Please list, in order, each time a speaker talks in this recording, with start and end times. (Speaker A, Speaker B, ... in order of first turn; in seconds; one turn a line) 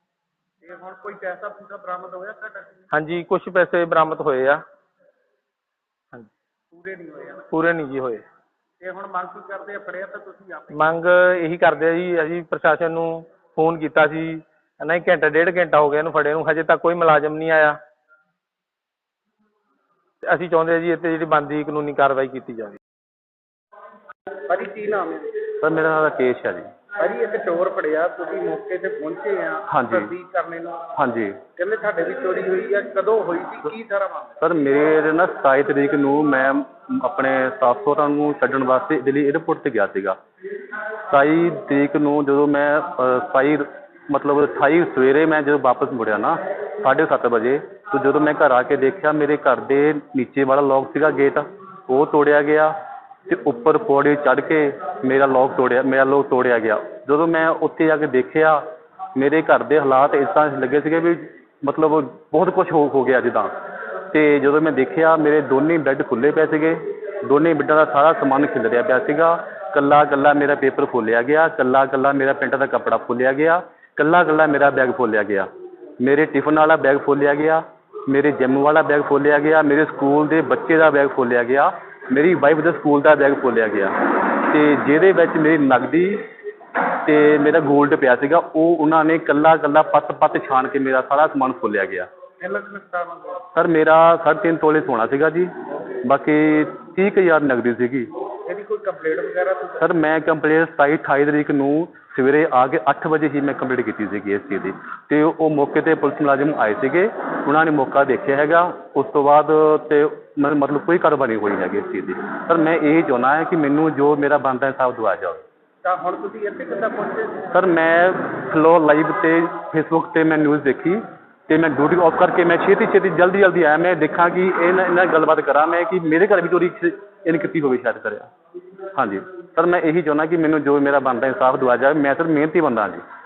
Speaker A: 0.6-2.8
Speaker B: 2.9-4.6
Speaker A: 6.7-7.5
Speaker B: 7.5-8.2
Speaker A: 8.8-10.8
Speaker B: 10.7-17.8
Speaker B: 20.2-22.8
Speaker A: 24.5-25.3
Speaker C: 25.6-26.7
Speaker A: 27.0-30.8
Speaker C: 29.7-30.1
Speaker C: 30.9-31.4
Speaker A: 31.6-34.4
Speaker C: 34.4-40.2
Speaker C: 41.1-52.7
Speaker C: 53.3-58.6
Speaker C: 59.1-63.5
Speaker C: 64.1-75.5
Speaker C: 76.0-86.2
Speaker C: 87.0-92.1
Speaker A: 92.4-93.4
Speaker C: 93.5-95.5
Speaker C: 96.0-98.1
Speaker A: 98.5-99.8
Speaker C: 99.8-115.4
Speaker A: 115.8-117.5
Speaker C: 117.5-128.3
Speaker C: 128.9-133.0